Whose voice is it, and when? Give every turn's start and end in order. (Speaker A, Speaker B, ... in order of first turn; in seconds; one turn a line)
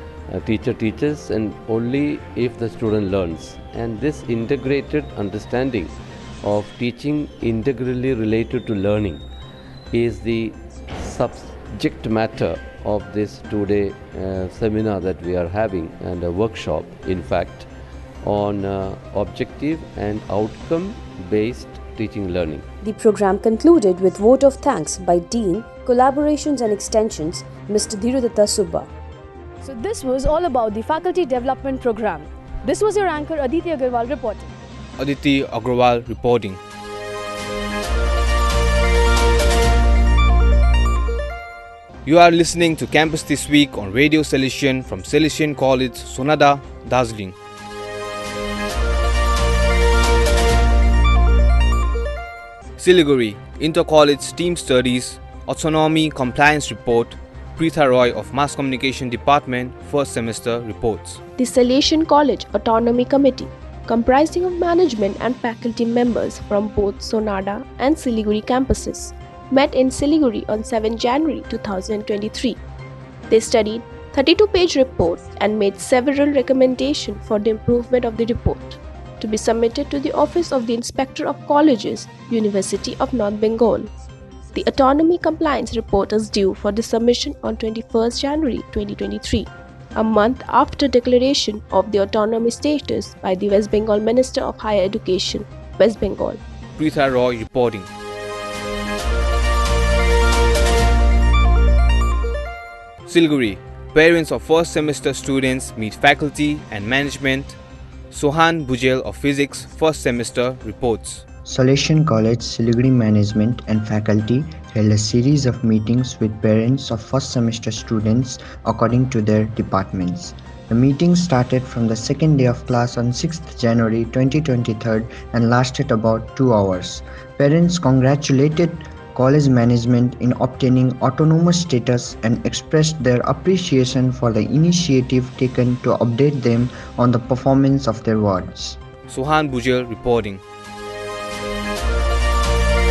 Speaker A: 0.3-9.3
Speaker A: 9.9-17.7
Speaker A: 18.2-22.7
Speaker B: 22.8-28.9
Speaker B: 29.6-34.5
Speaker C: 35.0-36.6
Speaker C: 42.1-47.4
Speaker C: 52.8-61.2
Speaker D: 61.4-72.6
Speaker D: 73.3-83.9
Speaker D: 84.5-96.4
Speaker C: 96.8-97.9
Speaker C: 103.1-107.6
Speaker C: 108.1-111.2
Speaker E: 111.5-138.8
Speaker C: 139.1-140.4